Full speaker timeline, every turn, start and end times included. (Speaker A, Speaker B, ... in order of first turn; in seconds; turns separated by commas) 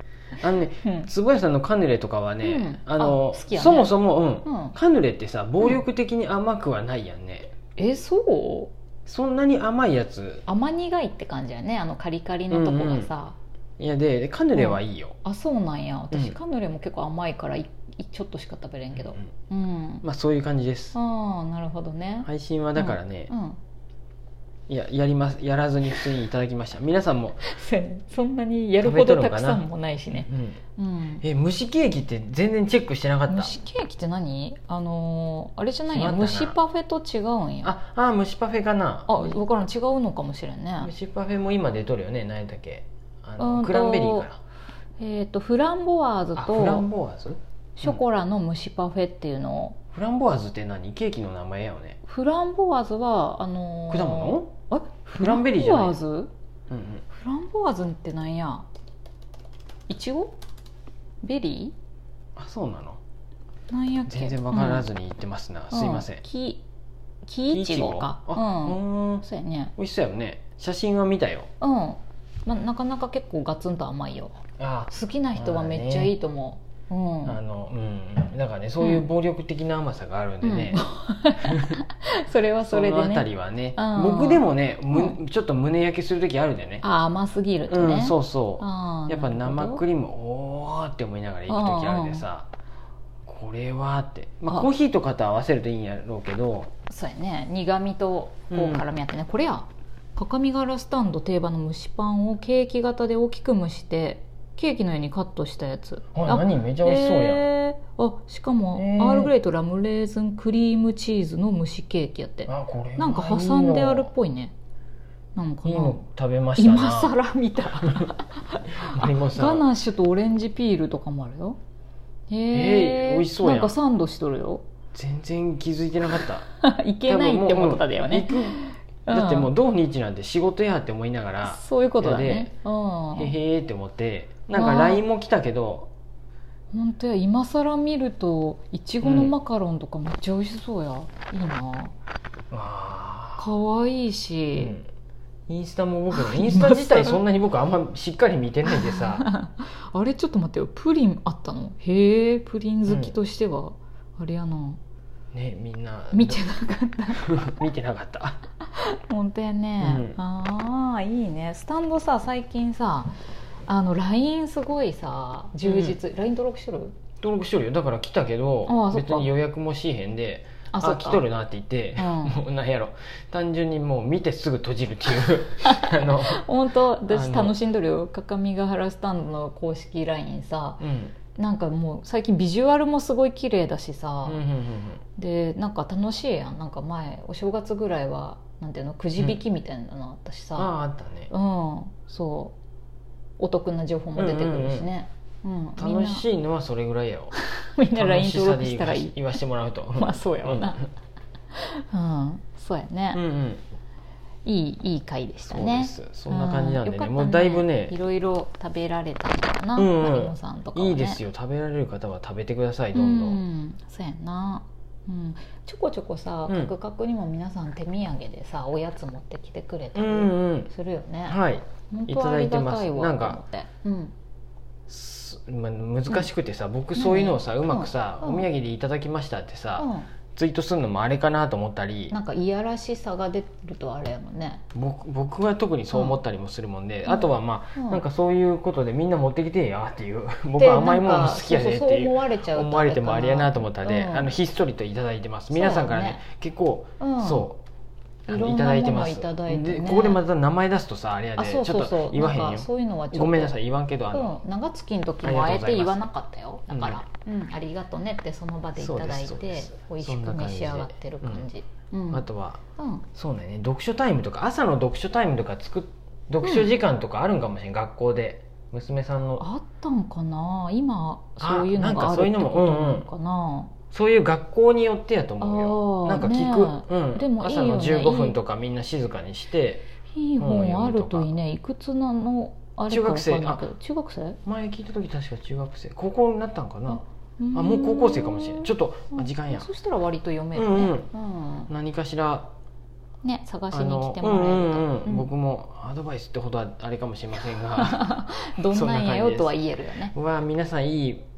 Speaker A: 0.4-7.5, Speaker B: 0.8-1.1, Speaker B: 2.4-4.8, Speaker B: 7.8-8.7, Speaker A: 9.1-10.4, Speaker B: 10.5-13.3, Speaker A: 12.5-13.1, Speaker A: 13.8-15.2, Speaker B: 14.5-20.0, Speaker A: 18.9-19.2, Speaker A: 20.0-21.0, Speaker B: 20.9-23.6, Speaker A: 22.2-23.3, Speaker A: 24.7-27.5, Speaker B: 27.4-31.2, Speaker A: 28.8-29.6, Speaker A: 30.2-30.6, Speaker A: 31.2-33.5, Speaker B: 33.3-37.7, Speaker A: 35.9-36.6, Speaker A: 37.6-39.3, Speaker B: 39.1-40.9, Speaker A: 40.8-44.4, Speaker B: 43.4-44.3, Speaker B: 45.0-46.9, Speaker A: 46.4-48.0, Speaker B: 47.8-49.8, Speaker A: 49.9-52.0, Speaker B: 52.0-56.3, Speaker A: 53.9-54.5, Speaker A: 55.0-56.0, Speaker A: 56.7-57.0, Speaker B: 57.1-58.6, Speaker B: 59.9-60.3, Speaker B: 61.2-61.7, Speaker A: 62.4-63.0, Speaker B: 63.7-64.9, Speaker A: 64.1-66.2, Speaker B: 65.7-66.6, Speaker B: 67.2-69.7, Speaker A: 67.5-71.5, Speaker B: 71.6-77.4, Speaker A: 74.6-76.1, Speaker A: 77.2-80.8, Speaker B: 78.8-79.0, Speaker B: 80.4-85.2, Speaker A: 81.4-81.8, Speaker A: 82.6-86.8, Speaker B: 86.8-89.8, Speaker A: 87.7-92.5, Speaker B: 91.5-92.2, Speaker A: 93.2-96.7, Speaker B: 96.9-114.5, Speaker A: 98.5-98.8, Speaker A: 106.1-107.5, Speaker A: 108.7-109.3, Speaker A: 112.5-114.1, Speaker B: 115.3-116.0, Speaker A: 115.6-117.1, Speaker B: 116.6-121.6, Speaker A: 118.7-119.6, Speaker B: 122.3-124.6, Speaker A: 122.5-123.7, Speaker A: 124.9-126.5, Speaker B: 126.2-129.5, Speaker A: 127.0-128.6, Speaker A: 129.1-132.5, Speaker B: 131.4-133.3, Speaker A: 133.1-135.9, Speaker B: 134.5-135.0, Speaker B: 136.7-141.9, Speaker A: 139.0-139.3, Speaker A: 142.5-143.5, Speaker B: 143.4-144.8, Speaker A: 144.5-144.8, Speaker A: 145.5-149.2, Speaker B: 146.1-147.2, Speaker B: 148.7-154.8, Speaker A: 152.9-153.1, Speaker A: 155.3-156.4, Speaker B: 156.1-157.3, Speaker A: 157.1-158.4, Speaker B: 158.7-163.1, Speaker A: 159.8-160.2, Speaker B: 163.7-166.9, Speaker A: 165.6-166.0, Speaker A: 167.2-176.4, Speaker B: 168.7-169.3, Speaker B: 170.7-171.2, Speaker B: 172.0-172.4, Speaker B: 175.6-180.8, Speaker A: 177.1-177.5, Speaker A: 180.8-181.2, Speaker B: 181.3-184.4, Speaker A: 184.2-185.0, Speaker B: 185.2-190.7, Speaker A: 190.6-191.3, Speaker B: 191.3-192.5, Speaker B: 193.4-196.3, Speaker A: 194.2-194.9, Speaker A: 195.8-197.3, Speaker B: 197.5-199.3, Speaker A: 197.9-200.7, Speaker B: 199.9-200.8, Speaker B: 201.5-203.2, Speaker A: 203.1-203.6, Speaker B: 204.4-211.2, Speaker A: 205.4-207.9, Speaker A: 209.7-213.4, Speaker B: 212.9-221.4, Speaker A: 216.5-216.7, Speaker A: 219.9-220.7, Speaker A: 221.3-223.4, Speaker B: 221.9-224.1, Speaker A: 224.9-232.2, Speaker B: 226.9-228.5, Speaker B: 229.8-230.1, Speaker B: 232.1-234.6, Speaker A: 234.7-247.6, Speaker B: 235.9-236.2, Speaker B: 237.1-238.0, Speaker B: 240.6-244.3, Speaker B: 245.5-246.2, Speaker B: 247.0-247.5, Speaker B: 248.3-250.2, Speaker A: 248.3-254.4, Speaker B: 251.3-253.6, Speaker B: 254.1-262.2, Speaker A: 255.2-256.0, Speaker A: 256.7-257.0, Speaker A: 258.8-261.4, Speaker A: 262.1-262.6, Speaker B: 262.8-263.1, Speaker A: 263.1-269.4, Speaker B: 266.4-266.7, Speaker B: 269.4-273.7, Speaker A: 271.4-273.1, Speaker A: 273.9-279.8, Speaker B: 275.4-278.4, Speaker B: 280.1-284.4, Speaker A: 280.4-281.3, Speaker A: 282.9-283.6, Speaker A: 284.4-289.7, Speaker B: 286.9-291.7, Speaker A: 290.5-291.1, Speaker A: 291.7-292.5, Speaker B: 293.2-295.3, Speaker A: 293.7-298.0, Speaker B: 297.8-300.1, Speaker A: 298.7-299.5, Speaker A: 300.1-301.2